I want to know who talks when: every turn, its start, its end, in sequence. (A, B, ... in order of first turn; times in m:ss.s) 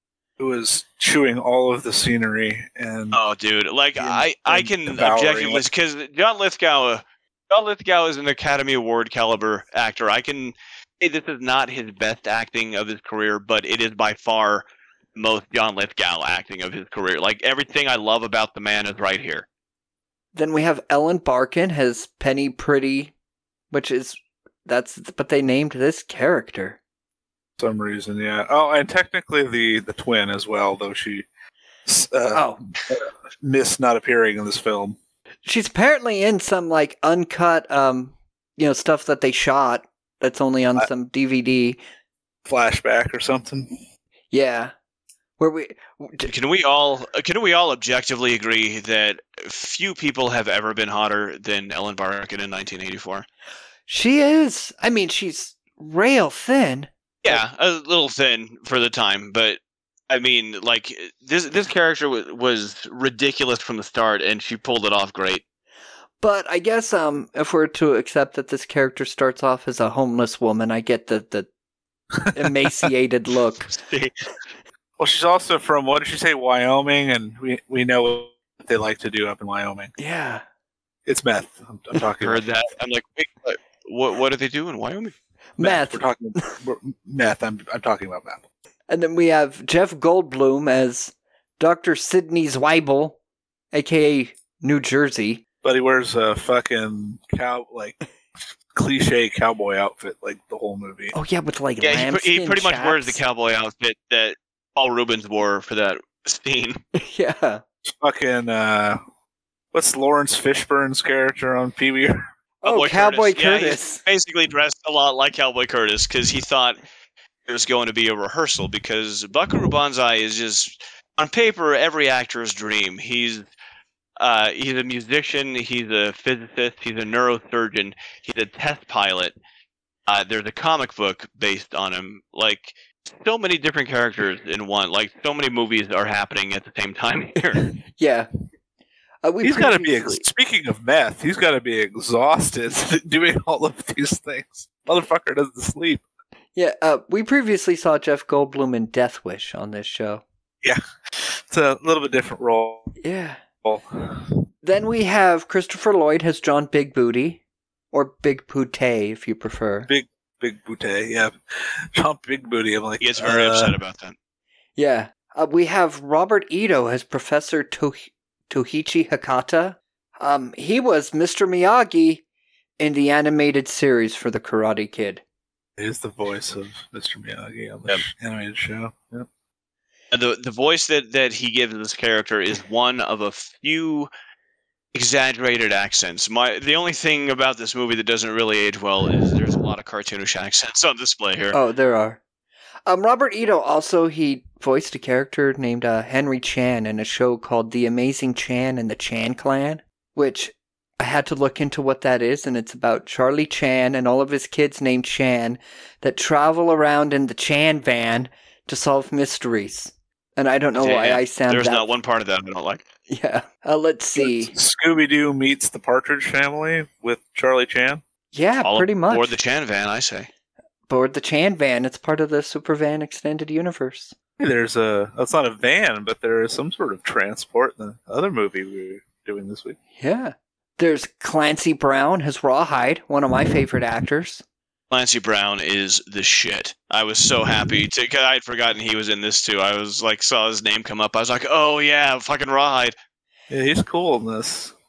0:00.4-0:03.2 A
0:03.1-0:19.5 B
0:04.4-0:05.6 A
0:20.4-0:23.1 C
0:23.7-0:26.8 C
0:27.6-0:31.3 A
0:31.9-0:35.0 A
0:32.3-0:32.6 C
0:35.4-0:41.8 C
0:42.5-0:43.8 A
0:44.3-0:44.7 C
0:45.4-0:46.3 C
0:46.3-0:53.3 B
0:53.9-0:57.4 C
0:57.2-0:59.6 B
1:00.1-1:05.4 B
1:06.2-1:11.5 C
1:12.2-1:12.6 A
1:12.3-1:13.7 C
1:13.7-1:14.1 B
1:15.0-1:19.9 A
1:20.0-1:20.4 C
1:21.1-1:22.4 A
1:22.2-1:25.1 B
1:25.6-1:26.0 C
1:25.6-1:28.4 A
1:28.9-1:33.2 C
1:33.7-1:35.4 C
1:35.6-1:38.0 A
1:38.7-1:41.1 A
1:41.1-1:43.2 C
1:41.8-1:46.8 B
1:47.0-1:47.6 C
1:47.9-1:49.0 A
1:49.7-1:52.3 A
1:52.6-1:54.0 C
1:52.6-1:56.8 B
1:57.5-2:03.5 B
2:04.2-2:09.4 B
2:10.1-2:17.8 B
2:17.9-2:18.3 C
2:19.2-2:20.2 C
2:19.4-2:26.0 A
2:26.6-2:30.2 C
2:30.6-2:32.9 A
2:33.0-2:33.4 C
2:33.6-2:34.4 A
2:34.6-2:37.4 C
2:37.9-2:39.9 C
2:39.9-2:41.4 A
2:41.9-2:43.7 A
2:43.0-2:44.2 B
2:44.8-2:52.2 C
2:52.8-2:55.2 C
2:55.8-2:59.3 A
3:00.1-3:04.1 B
3:04.9-3:11.6 B
3:11.5-3:12.2 C
3:12.9-3:31.8 C
3:30.8-3:32.8 B
3:33.1-3:34.5 C
3:34.2-3:38.0 A
3:38.3-3:39.3 C
3:38.6-3:40.3 B
3:40.9-3:44.1 C
3:44.4-3:49.8 A
3:50.0-3:54.4 C
3:54.9-4:03.0 B
4:03.5-4:04.7 A